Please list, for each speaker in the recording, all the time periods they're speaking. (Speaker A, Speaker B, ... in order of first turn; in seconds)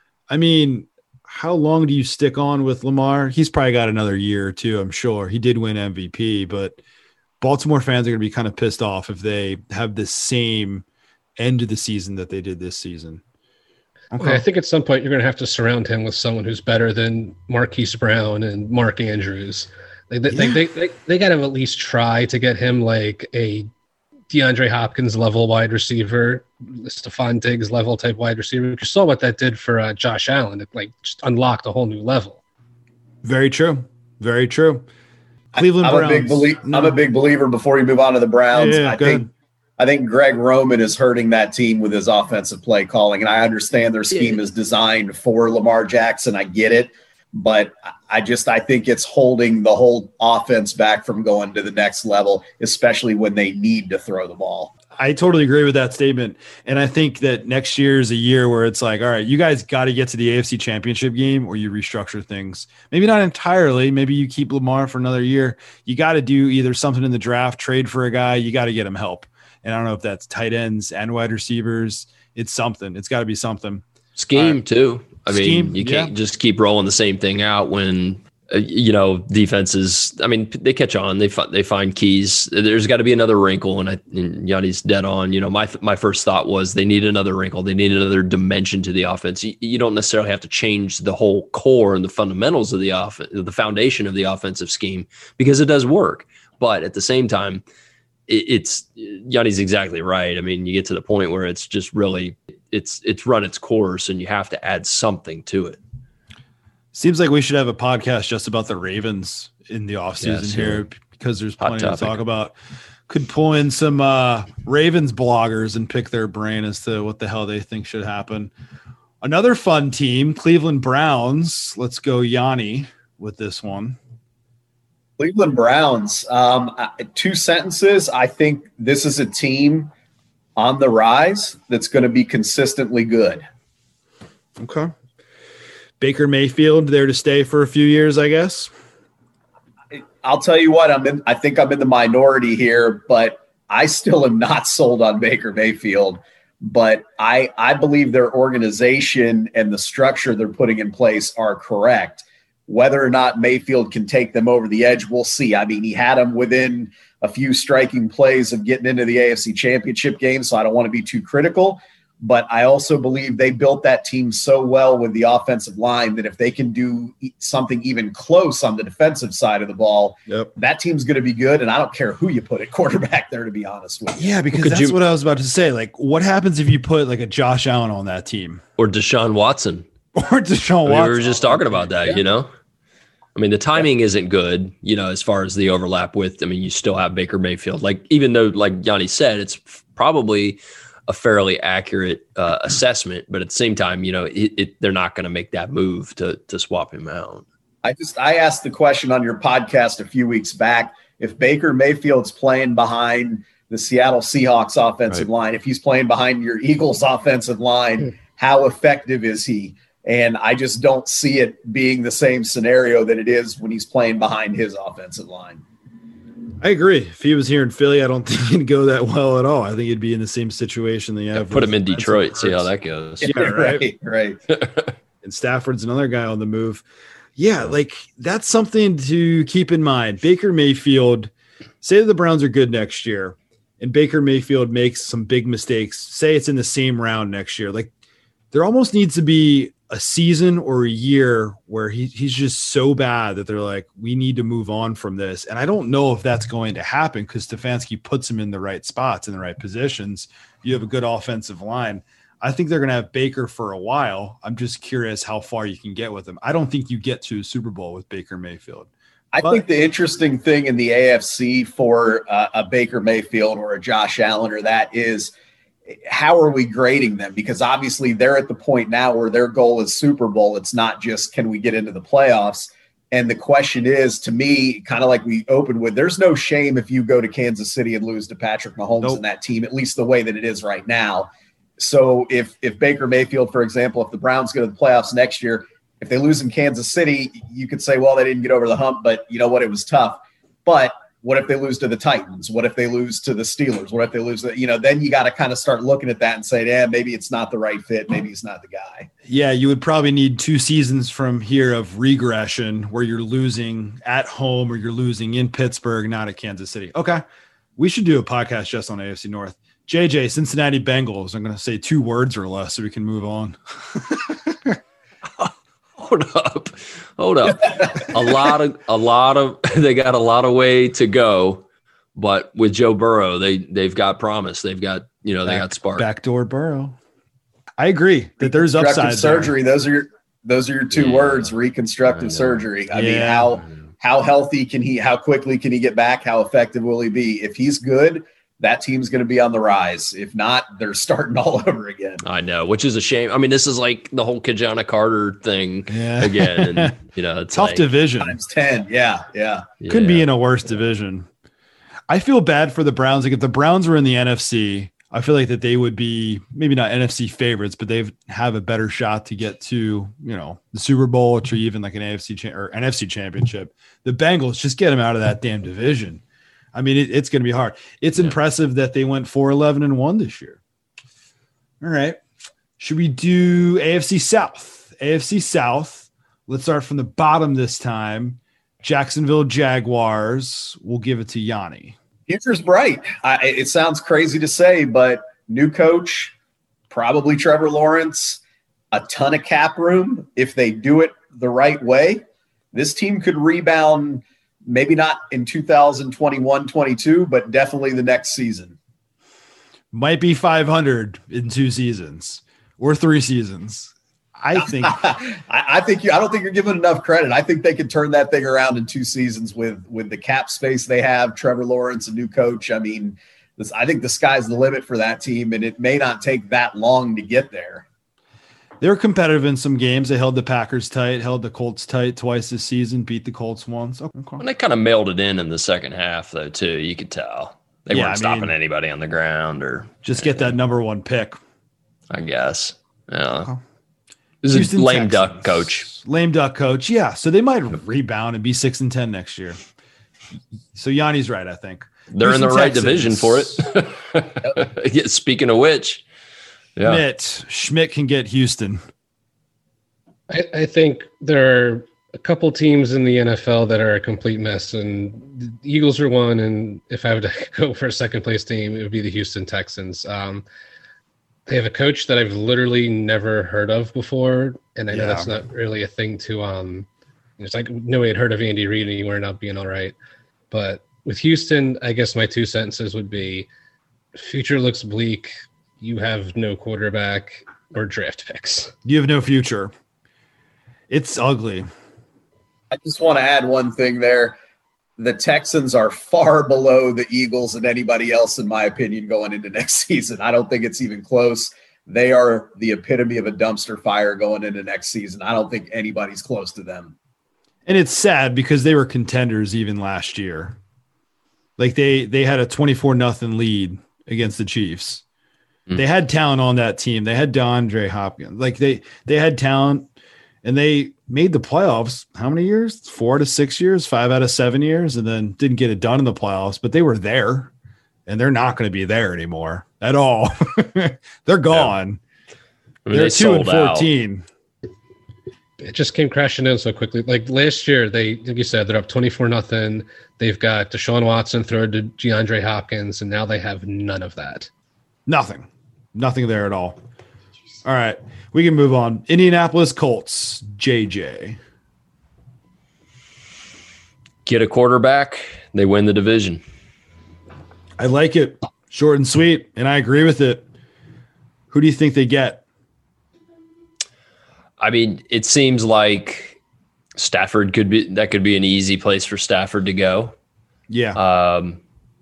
Speaker A: 0.3-6.8, 7.4-10.8, 11.4-13.2, 14.1-14.4, 20.3-20.6, 33.2-34.9, 35.5-37.0, 38.5-39.2, 55.0-74.6, 75.3-76.1, 106.9-112.5, 113.1-118.5, 119.2-124.0, 134.6-134.9, 136.0-138.7, 174.2-178.6, 180.1-181.8, 216.6-223.9, 225.2-226.8, 227.4-231.3, 231.8-237.9, 238.5-258.9, 299.2-307.2, 307.8-314.8, 325.4-327.0, 327.8-329.5, 332.9-333.6, 345.9-346.9, 347.5-348.4, 349.9-351.3, 352.1-366.2, 366.7-370.6, 371.8-372.2, 372.8-381.9, 399.9-405.0, 418.8-424.4, 427.9-428.5, 430.0-431.4, 434.5-439.6, 440.7-443.6, 446.8-448.8, 464.9-465.3, 478.8-479.7, 480.9-481.7, 497.6-500.6, 501.6-505.0, 505.7-509.9, 510.4-517.5, 518.1-522.0, 522.9-524.2, 535.1-536.8, 537.6-541.4, 547.8-550.4, 551.5-552.4, 560.7-561.0
Speaker B: 14.2-23.7, 24.3-32.4, 450.3-460.4, 461.5-466.9, 467.4-469.9, 470.5-473.5, 474.1-478.7, 525.6-534.5
Speaker C: 35.5-54.7, 125.2-129.9, 130.6-133.4, 139.9-174.2, 197.8-215.6, 223.2-224.4, 259.3-265.3, 265.9-299.1, 328.4-342.2, 348.2-349.7, 382.3-386.3, 386.9-388.4, 388.9-398.8, 404.6-417.8, 482.7-484.4, 485.0-496.9
Speaker D: 74.2-97.6, 98.3-105.8, 110.2-110.8, 111.6-112.2, 174.5-174.9, 178.8-179.9, 180.8-182.5, 183.3-197.4, 221.3-223.3, 224.5-224.9, 315.4-321.6, 322.1-326.1, 330.9-331.5, 332.1-332.6, 342.2-347.8, 349.8-350.2, 424.4-430.5, 432.1-433.5, 434.4-435.9, 442.1-446.0, 522.9-523.9, 544.2-546.4, 554.6-556.4, 556.9-560.1, 561.0-561.6